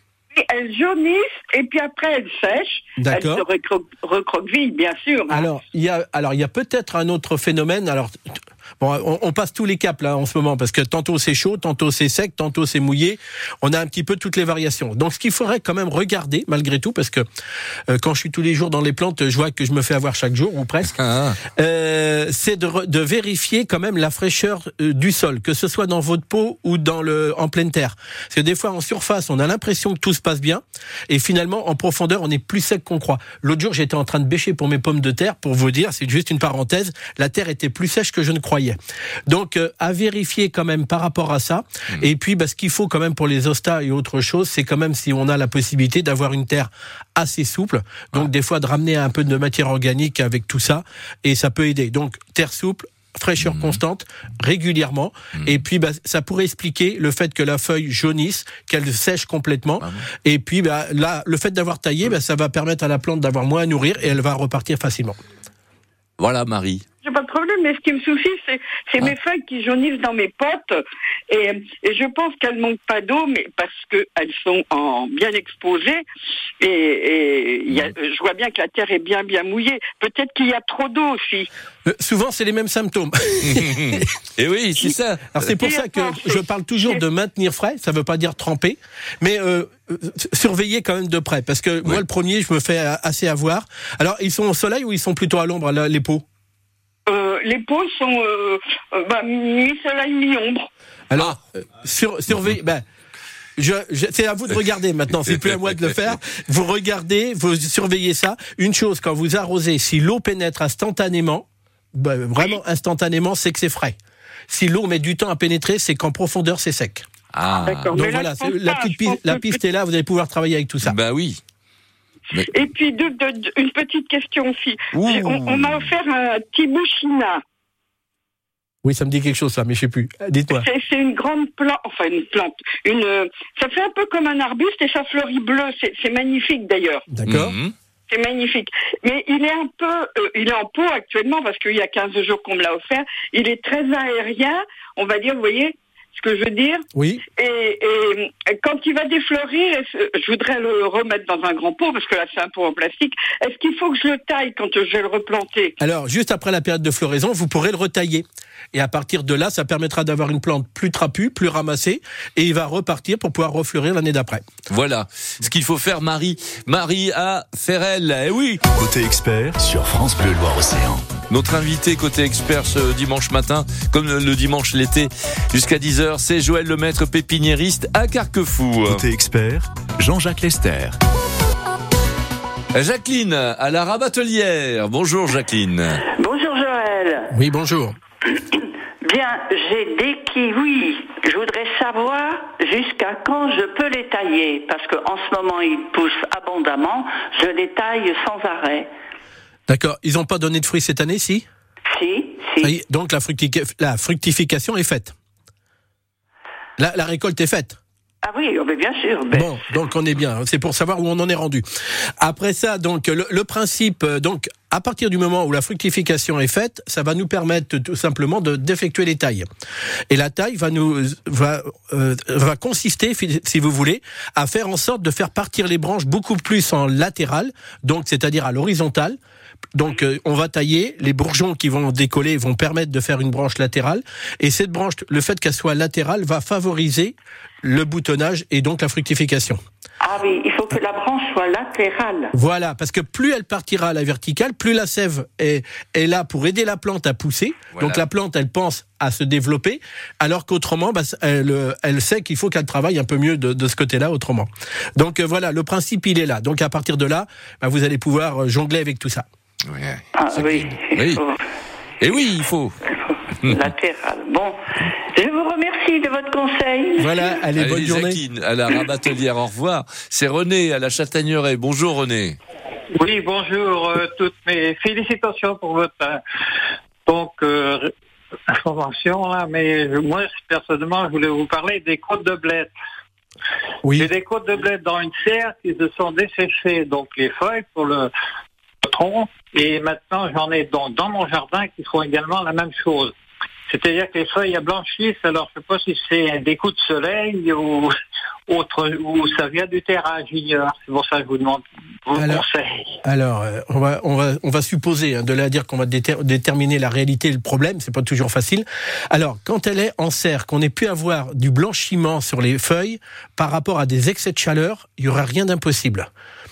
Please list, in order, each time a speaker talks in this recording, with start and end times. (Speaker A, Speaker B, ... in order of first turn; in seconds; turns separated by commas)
Speaker A: 0.3-5.5, Speaker B: 3.0-3.5, Speaker B: 5.3-8.2, Speaker B: 8.8-17.2, Speaker B: 17.9-20.9, Speaker C: 20.9-21.4, Speaker B: 21.5-65.2, Speaker C: 53.4-53.8, Speaker C: 55.4-55.6, Speaker C: 59.8-60.1, Speaker C: 66.2-66.8, Speaker A: 67.0-76.0, Speaker A: 76.6-81.5, Speaker B: 81.9-84.1, Speaker C: 83.5-85.6, Speaker B: 85.3-96.2, Speaker A: 85.6-87.0, Speaker A: 97.1-100.7, Speaker B: 101.1-102.8, Speaker B: 103.6-114.0, Speaker C: 105.3-106.0, Speaker B: 114.5-117.1, Speaker C: 117.3-118.0, Speaker A: 117.7-119.6, Speaker B: 117.9-121.0, Speaker C: 120.8-121.4, Speaker A: 122.5-127.4, Speaker C: 124.9-125.9, Speaker B: 128.8-130.7, Speaker A: 130.6-137.1, Speaker B: 137.1-137.6, Speaker C: 137.3-137.7, Speaker A: 138.1-146.9, Speaker B: 146.9-147.2, Speaker A: 147.4-155.8, Speaker B: 155.8-164.5, Speaker C: 164.7-168.6, Speaker D: 168.8-171.1, Speaker C: 171.3-179.0, Speaker D: 178.9-181.0, Speaker C: 182.8-186.0, Speaker E: 186.2-187.3, Speaker B: 187.3-188.0, Speaker E: 188.6-198.9, Speaker B: 199.7-201.5, Speaker E: 201.9-202.7, Speaker B: 202.6-205.1, Speaker B: 206.8-207.8, Speaker E: 208.2-209.9, Speaker B: 209.3-211.6, Speaker B: 212.2-219.5, Speaker B: 220.1-229.2, Speaker B: 229.8-239.6, Speaker E: 240.0-242.3, Speaker B: 242.3-259.3, Speaker C: 247.8-248.0, Speaker C: 259.7-261.2, Speaker E: 260.1-261.4, Speaker C: 262.0-262.7, Speaker C: 263.4-263.7, Speaker E: 263.4-267.2, Speaker B: 267.0-268.2, Speaker C: 267.6-272.4, Speaker F: 273.0-276.2, Speaker F: 277.1-277.9, Speaker F: 278.5-282.7, Speaker B: 283.8-284.1, Speaker F: 283.9-288.1, Speaker F: 288.8-293.1, Speaker F: 293.7-297.9, Speaker F: 298.5-303.0, Speaker B: 302.2-302.4, Speaker B: 303.0-316.1